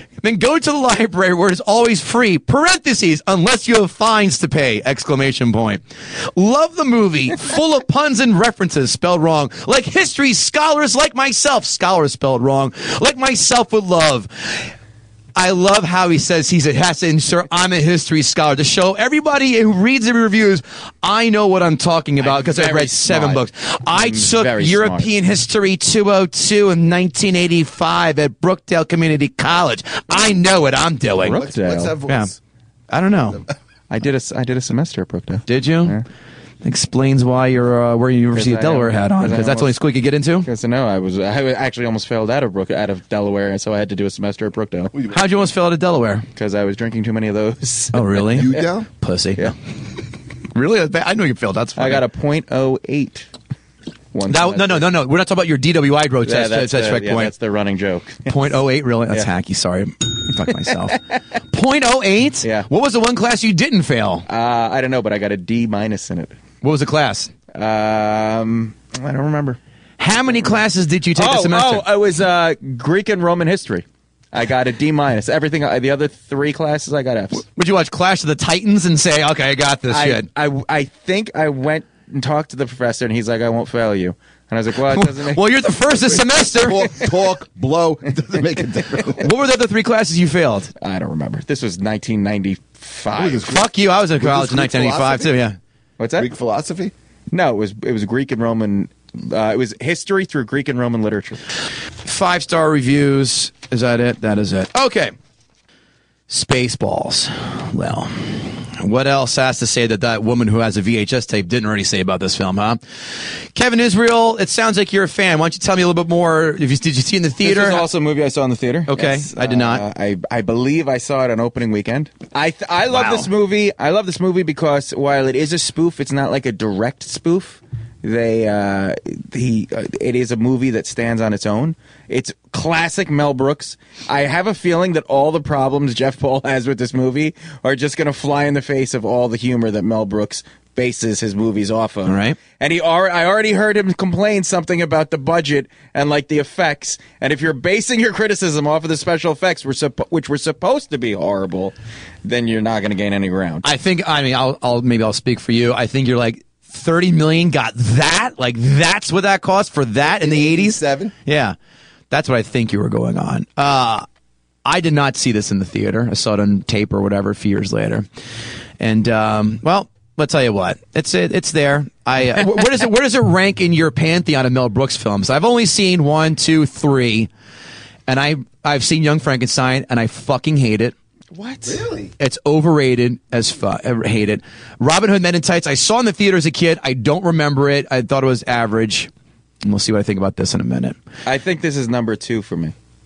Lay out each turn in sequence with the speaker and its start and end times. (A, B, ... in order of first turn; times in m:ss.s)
0:00.2-0:14.7 A
0:15.4-0:31.4 A
0:22.2-0:25.1 B
0:31.2-0:31.9 B
0:31.2-0:32.4 C
0:32.9-0:33.4 A
0:33.9-0:36.0 B
0:35.5-0:36.0 A
0:36.6-0:40.5 A
0:38.3-0:39.8 B
0:40.4-0:44.9 B
0:45.1-0:46.2 A
0:46.3-0:48.6 B
0:47.9-0:49.6 A
0:48.3-0:48.9 C
0:50.5-0:52.0 A
0:51.8-0:53.3 B
0:54.1-0:54.9 B
0:54.3-0:57.3 A
0:56.2-0:58.5 B
0:58.2-1:04.2 A
1:02.4-1:02.7 B
1:04.3-1:06.4 B
1:06.6-1:07.3 A
1:07.5-1:09.6 B
1:10.0-1:11.8 A
1:11.2-1:17.4 B
1:17.4-1:20.2 A
1:19.9-1:25.4 B
1:24.9-1:27.1 A
1:26.5-1:29.3 C
1:29.2-1:30.7 A
1:30.8-1:33.5 B
1:33.1-1:35.3 C
1:33.5-1:35.6 A
1:36.0-1:36.3 B
1:36.2-1:36.9 C
1:37.3-1:41.4 B
1:42.0-1:45.1 A
1:46.3-1:52.8 A
1:53.5-1:57.8 A
1:57.4-2:33.7 B
1:58.9-1:59.8 A
2:02.9-2:03.3 A
2:22.0-2:22.4 A
2:33.6-2:41.5 A
2:40.0-2:41.1 C
2:42.1-2:44.0 A
2:44.6-2:48.0 A
2:48.8-2:57.3 A
2:58.1-3:00.9 A
3:01.3-3:01.8 B
3:01.6-3:02.1 C
3:02.2-3:09.1 A
3:09.6-3:11.0 A
3:11.2-3:12.7 B